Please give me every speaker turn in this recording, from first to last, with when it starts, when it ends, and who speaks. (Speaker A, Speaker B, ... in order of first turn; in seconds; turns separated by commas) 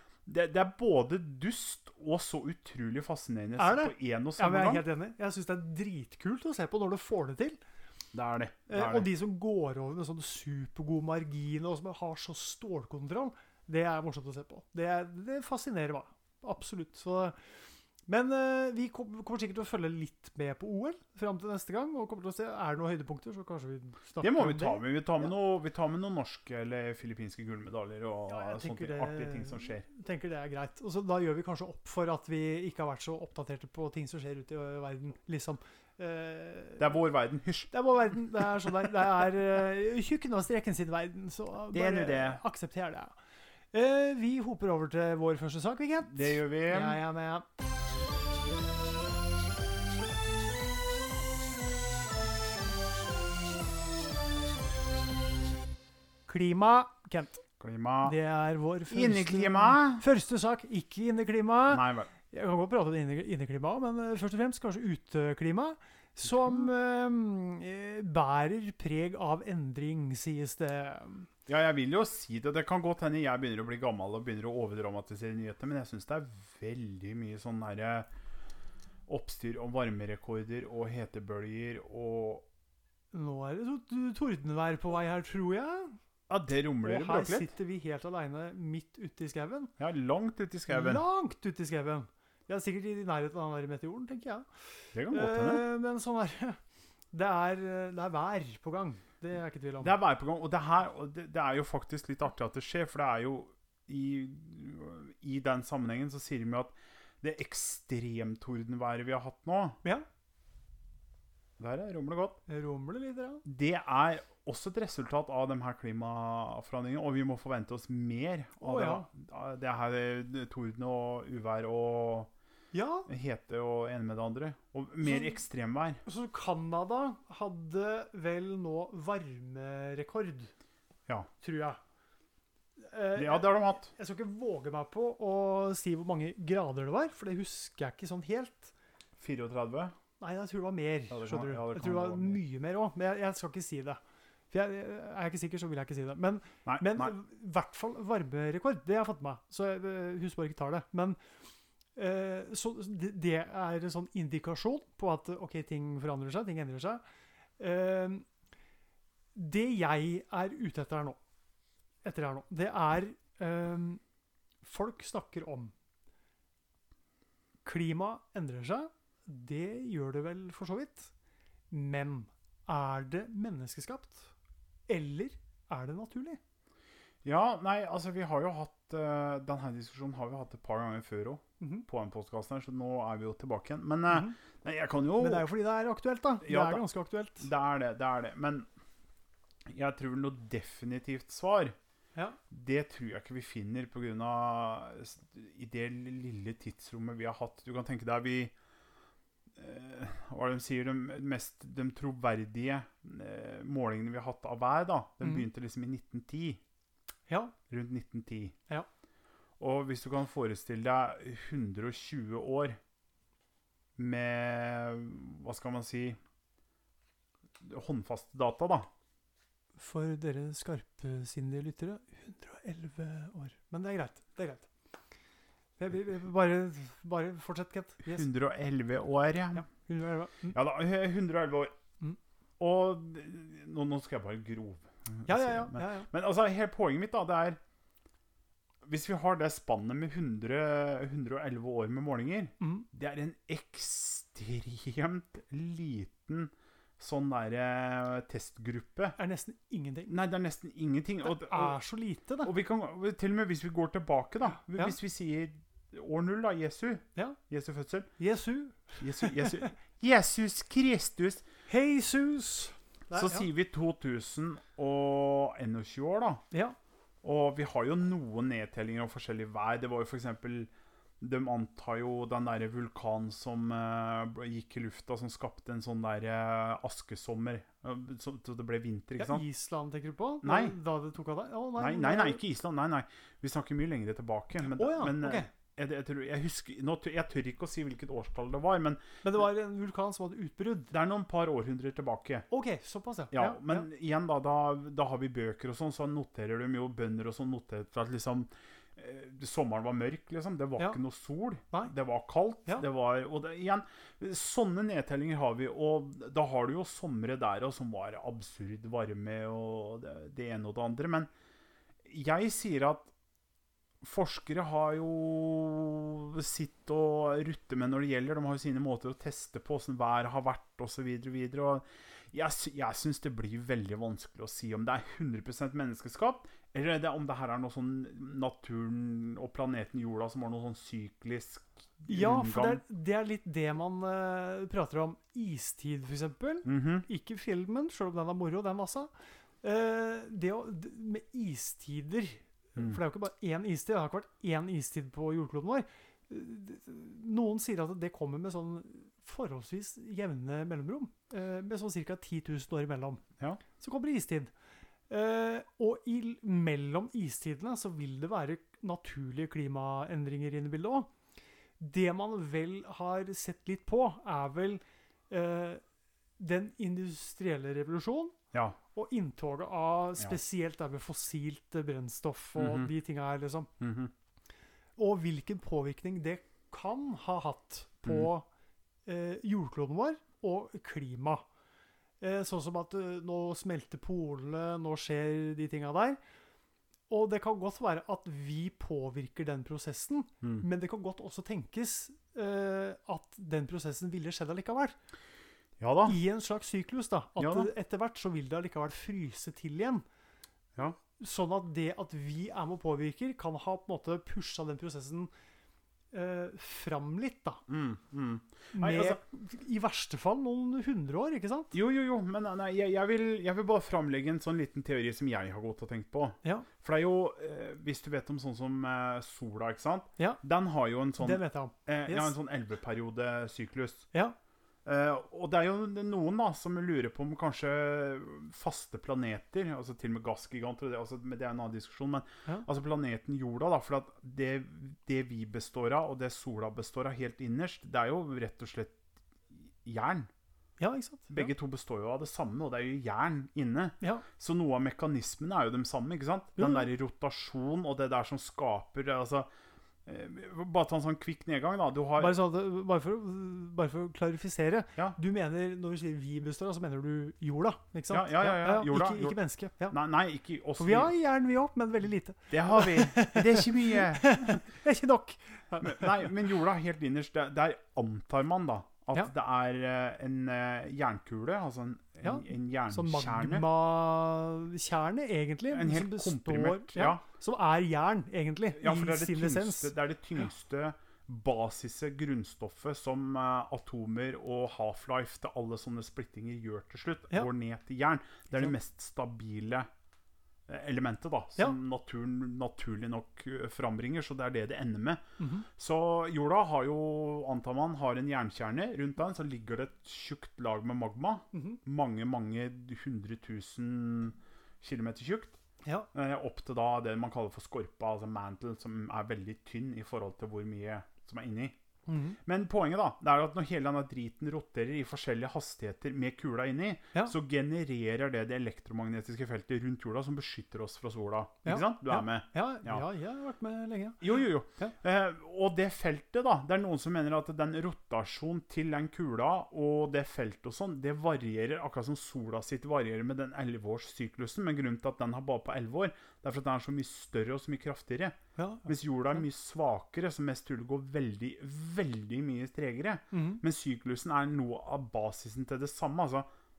Speaker A: 0.2-4.8, Speaker B: 3.6-7.6, Speaker A: 8.1-9.1, Speaker B: 8.7-17.4, Speaker B: 18.1-25.3, Speaker A: 24.2-29.8, Speaker B: 28.3-37.0, Speaker A: 36.8-37.7, Speaker B: 37.7-43.1, Speaker A: 41.7-42.4, Speaker B: 43.7-47.4, Speaker A: 46.1-47.0, Speaker B: 56.3-57.4, Speaker A: 57.6-58.1, Speaker B: 58.0-71.3, Speaker A: 58.9-60.0, Speaker A: 61.7-62.1, Speaker A: 66.3-66.7, Speaker A: 71.5-78.1, Speaker A: 79.1-82.5, Speaker B: 83.1-86.0, Speaker A: 86.3-87.5, Speaker B: 86.8-89.7, Speaker A: 89.8-91.0, Speaker B: 90.7-94.5, Speaker A: 94.9-95.6, Speaker B: 95.1-96.6, Speaker B: 97.1-100.0, Speaker A: 99.8-109.8, Speaker A: 111.6-112.4, Speaker B: 112.5-113.4, Speaker A: 113.4-122.3, Speaker B: 118.6-119.1, Speaker B: 122.7-123.1, Speaker A: 123.1-126.0, Speaker B: 125.0-125.4, Speaker B: 126.0-130.5, Speaker B: 131.4-131.8, Speaker B: 132.8-138.7, Speaker A: 133.2-133.9, Speaker A: 139.2-139.9, Speaker B: 140.2-144.0, Speaker A: 141.1-142.4, Speaker B: 144.5-151.2, Speaker A: 146.7-147.1, Speaker B: 151.9-157.0, Speaker B: 157.6-158.2, Speaker B: 159.3-161.2, Speaker B: 162.0-164.0, Speaker B: 164.6-165.7, Speaker B: 167.6-171.1, Speaker B: 171.7-174.3, Speaker B: 174.9-176.4, Speaker A: 177.2-185.4, Speaker B: 181.6-181.8, Speaker B: 184.1-184.4, Speaker B: 185.2-187.5, Speaker A: 186.4-186.8, Speaker A: 187.4-188.7, Speaker A: 189.7-191.7, Speaker B: 192.1-192.4, Speaker A: 192.5-198.5, Speaker A: 199.6-206.6, Speaker B: 207.3-207.5, Speaker A: 207.7-208.5, Speaker A: 209.6-212.8, Speaker A: 214.0-216.2, Speaker A: 217.6-218.9, Speaker B: 219.8-224.7, Speaker B: 225.8-228.3, Speaker A: 228.0-229.7, Speaker B: 229.5-230.6, Speaker A: 230.5-231.7, Speaker A: 232.6-237.6, Speaker B: 235.2-236.1, Speaker A: 238.8-249.2, Speaker B: 242.6-242.9, Speaker B: 249.2-250.1, Speaker A: 250.1-251.8, Speaker B: 251.2-252.5, Speaker A: 252.4-258.1, Speaker B: 254.6-254.9, Speaker B: 258.2-259.7, Speaker A: 259.0-261.4, Speaker B: 261.7-263.5, Speaker A: 263.1-266.4, Speaker A: 267.2-279.4, Speaker B: 279.2-282.4, Speaker A: 280.4-280.8, Speaker A: 281.8-289.0, Speaker B: 284.6-285.5, Speaker B: 289.2-290.9, Speaker A: 290.9-292.4, Speaker B: 292.5-293.9, Speaker A: 293.3-311.3, Speaker A: 312.0-313.1, Speaker A: 314.0-332.8, Speaker B: 332.1-339.1, Speaker A: 336.6-337.1, Speaker B: 339.6-353.2, Speaker B: 353.8-354.5, Speaker B: 355.1-361.1, Speaker B: 361.8-365.8, Speaker B: 366.4-368.4, Speaker B: 368.9-373.7, Speaker A: 372.6-372.9, Speaker A: 373.8-374.1, Speaker B: 375.0-378.5, Speaker B: 379.1-381.4, Speaker B: 382.2-386.2, Speaker B: 387.1-394.9, Speaker A: 395.8-396.2, Speaker B: 396.0-400.0, Speaker A: 397.4-397.7, Speaker B: 401.2-405.3, Speaker B: 406.1-407.6, Speaker A: 407.7-409.2, Speaker B: 408.7-411.7, Speaker A: 411.7-424.1, Speaker B: 416.4-416.7, Speaker B: 421.2-422.3, Speaker A: 424.8-439.0, Speaker A: 439.7-440.3, Speaker B: 440.8-441.5, Speaker A: 441.3-449.5, Speaker B: 446.6-446.9, Speaker A: 450.1-452.4, Speaker B: 452.2-459.9, Speaker A: 458.1-459.4, Speaker A: 459.9-461.1, Speaker B: 460.8-466.4, Speaker A: 462.5-464.6, Speaker A: 465.8-473.6, Speaker B: 472.2-479.9, Speaker A: 475.7-477.2, Speaker A: 478.7-489.9, Speaker A: 490.7-495.2, Speaker B: 495.4-495.7, Speaker A: 495.8-505.6, Speaker B: 501.5-501.8, Speaker B: 505.8-506.1, Speaker A: 506.1-511.8, Speaker B: 512.1-512.4, Speaker A: 512.4-523.0, Speaker B: 521.6-524.9, Speaker A: 524.2-546.5, Speaker B: 538.5-538.9, Speaker B: 543.3-543.6